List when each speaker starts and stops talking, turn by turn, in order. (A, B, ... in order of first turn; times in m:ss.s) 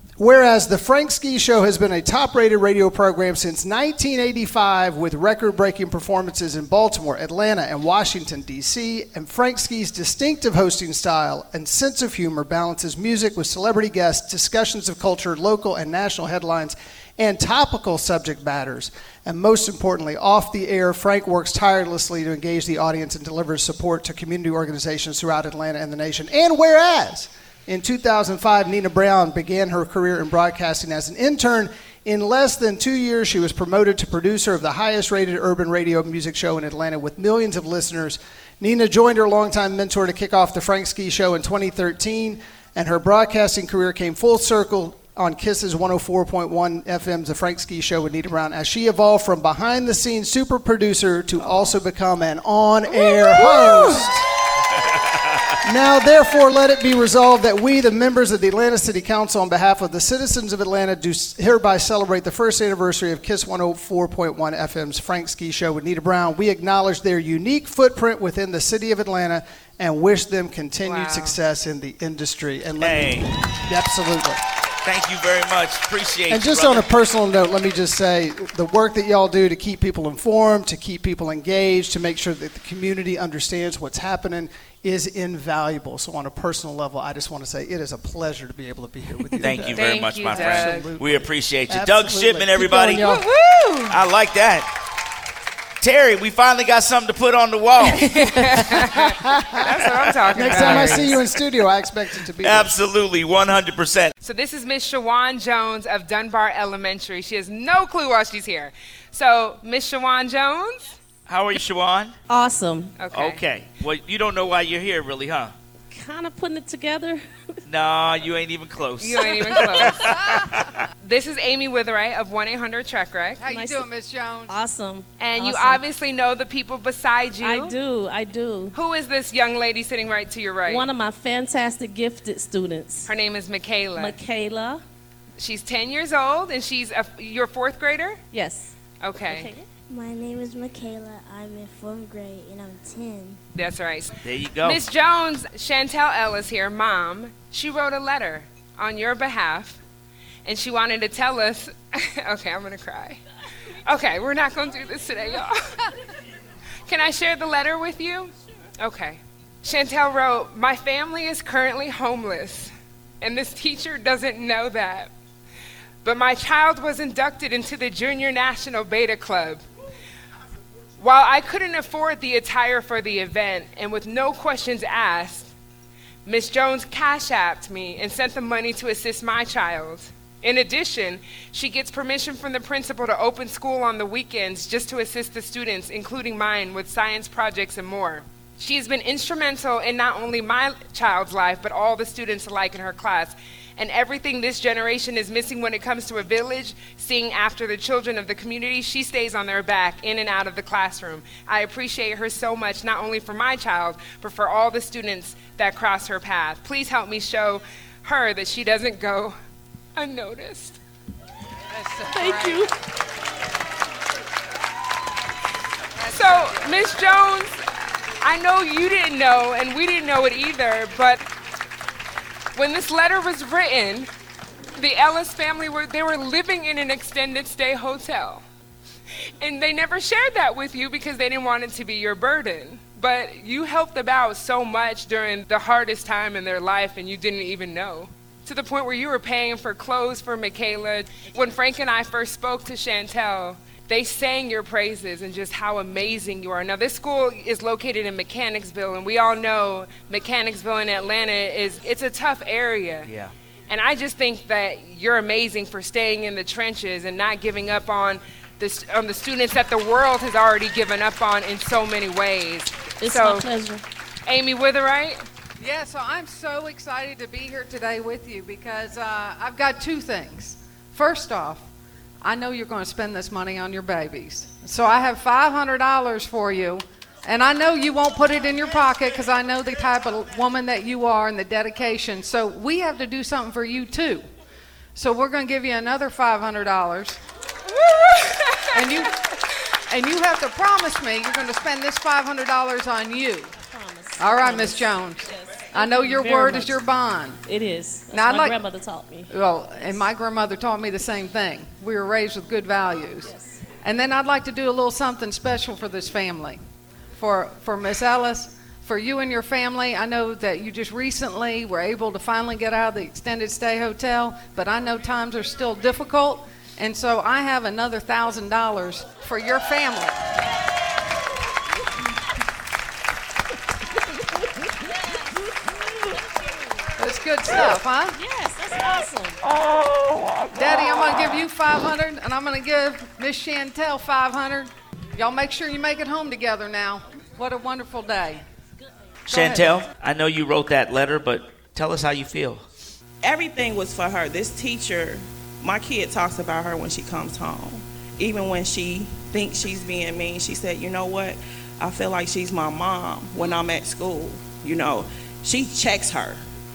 0:00.2-0:54.2 A
0:55.6-1:14.4 A
1:10.8-1:11.4 B
1:12.8-1:13.3 C
1:14.8-1:16.8 C
1:16.3-1:33.3 A
1:29.4-1:33.0 C
1:29.7-1:30.9 B
1:33.0-1:33.9 B
1:33.9-1:34.7 C
1:35.8-1:38.2 C
1:37.8-1:41.2 B
1:38.7-1:39.6 A
1:40.3-1:42.7 A
1:40.5-1:41.0 C
1:42.4-1:44.1 C
1:44.2-1:51.0 B
1:51.3-1:52.1 C
1:52.3-1:52.9 D
1:53.0-1:53.4 B
1:53.1-1:55.5 C
1:55.9-1:57.2 D
1:57.7-2:00.9 C
1:59.0-2:00.0 B
1:59.5-1:59.9 D
2:01.0-2:03.4 B
2:03.4-2:04.5 E
2:03.4-2:03.9 D
2:04.5-2:05.8 D
2:05.2-2:07.8 B
2:07.4-2:08.7 D
2:08.7-2:10.9 B
2:10.6-2:13.1 D
2:13.0-2:14.2 B
2:14.0-2:14.8 D
2:15.4-2:18.2 B
2:18.3-2:18.7 D
2:19.0-2:19.5 B
2:19.3-2:19.6 D
2:19.9-2:23.4 F
2:23.6-2:29.8 B
2:24.2-2:24.8 C
2:30.4-2:33.2 B
2:33.8-2:35.8 B
2:36.9-2:45.1 B
2:46.0-2:49.6 B
2:51.0-2:55.5 B
2:56.2-3:29.4 B
3:30.0-3:30.8 B
3:31.7-3:32.6 E
3:32.1-3:32.7 D
3:36.0-3:36.7 E
3:36.0-3:37.6 B
3:38.2-3:41.2 B
3:42.6-3:44.1 B
3:44.8-3:48.4 B
3:49.4-4:13.1 B
4:13.0-4:13.3 C
4:13.7-4:23.4 B
4:23.0-4:23.8 D
4:24.2-4:25.2 B
4:25.6-4:31.6 E
4:32.2-4:44.2 E
4:44.9-4:47.2 E
4:47.7-4:48.7 B
4:48.7-4:49.2 E
4:49.9-4:53.5 E
4:53.6-4:56.8 D
4:54.2-4:57.4 E
4:57.4-4:59.3 D
4:58.1-4:58.6 E
4:59.3-5:03.3 E
5:03.2-5:03.6 D
5:03.8-5:06.6 E
5:07.2-5:20.2 E
5:27.0-5:28.2 E
5:28.1-5:29.4 D
5:30.5-5:38.4 E
5:39.3-5:42.6 C
5:39.3-5:39.7 E
5:43.2-5:56.4 G